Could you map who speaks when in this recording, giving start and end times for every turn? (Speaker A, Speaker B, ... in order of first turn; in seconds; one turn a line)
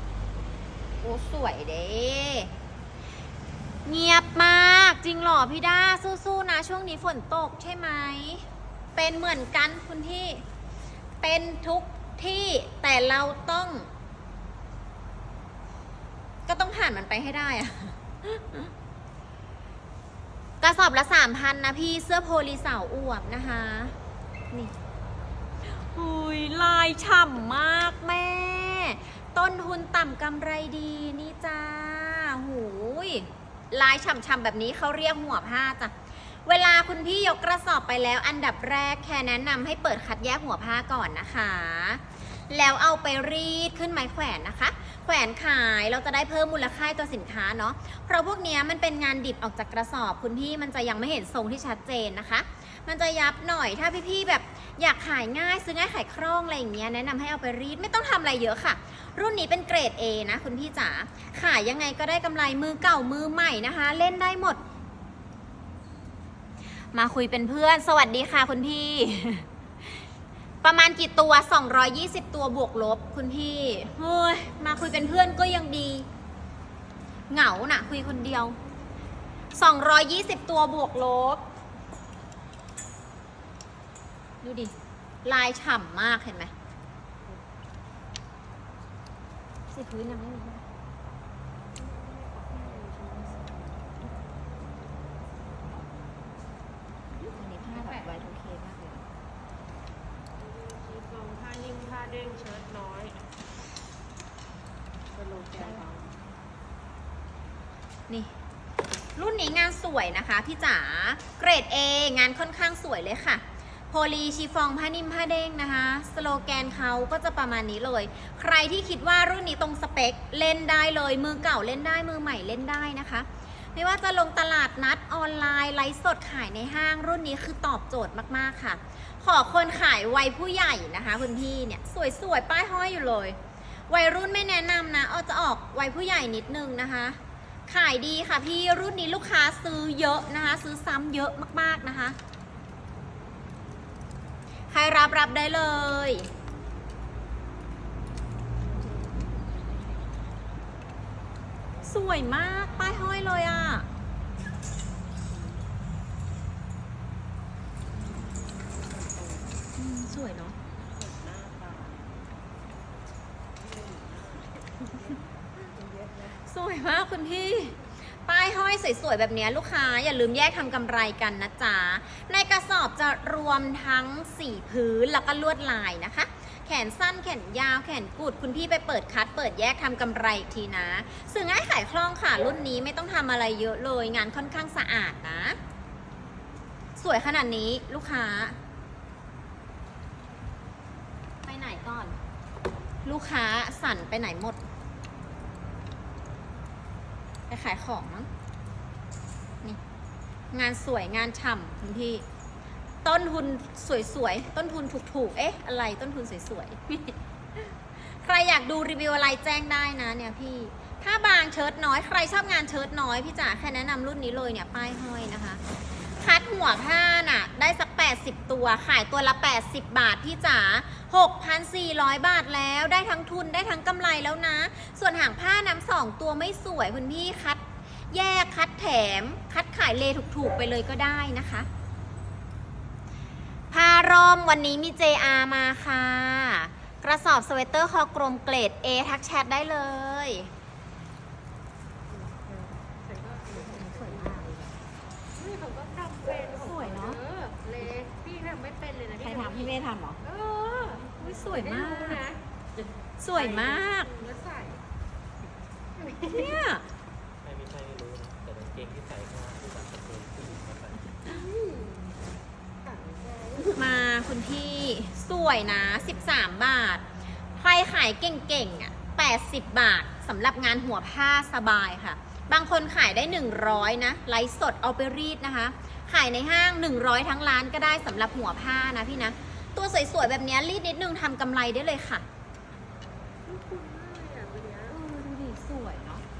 Speaker A: 1.0-2.5
Speaker A: 3.9-10.4
Speaker A: 11.2-13.9
Speaker A: 16.5-18.7
Speaker A: 20.6-24.0
Speaker A: 25.6-35.9
Speaker A: 36.5-64.6
Speaker A: 66.9-69.5
Speaker A: 70.6-76.1
Speaker A: 77.3-78.6
Speaker A: 79.5-81.4
Speaker A: 84.4-84.7
Speaker A: 85.2-86.5
Speaker A: 89.7-90.6
Speaker B: 91.8-93.9
Speaker B: 97.2-98.2
Speaker A: 97.3-99.1
Speaker B: 100.4-103.2
Speaker B: 105.1-106.2
Speaker A: 109.2-133.4
Speaker A: 133.9-142.2
Speaker A: 144.7-146.3
Speaker B: 148.7-150.1
Speaker A: 151.8-153.9
Speaker B: 155.2-155.7
Speaker B: 158.0-159.6
Speaker A: 159.8-160.6
Speaker B: 160.7-162.1
Speaker B: 163.5-166.4
Speaker A: 166.5-185.6
Speaker A: 187.0-188.6
Speaker A: 191.4-192.2
Speaker A: 193.0-194.6
Speaker A: 197.5-198.3
Speaker A: 200.5-202.2
Speaker A: 203.0-215.6
Speaker A: 216.2-231.7
Speaker A: 233.7-240.5
Speaker B: 242.1-244.3
Speaker A: 243.5-244.7
Speaker B: 245.4-249.7
Speaker A: 246.5-247.2
Speaker A: 249.2-250.2
Speaker B: 250.3-254.8
Speaker A: 251.2-252.2
Speaker A: 253.2-254.1
Speaker A: 256.2-256.9
Speaker C: 257.4-261.4
Speaker B: 261.3-262.1
Speaker B: 262.9-263.7
Speaker A: 263.5-282.2
Speaker B: 283.4-285.0
Speaker A: 284.9-286.2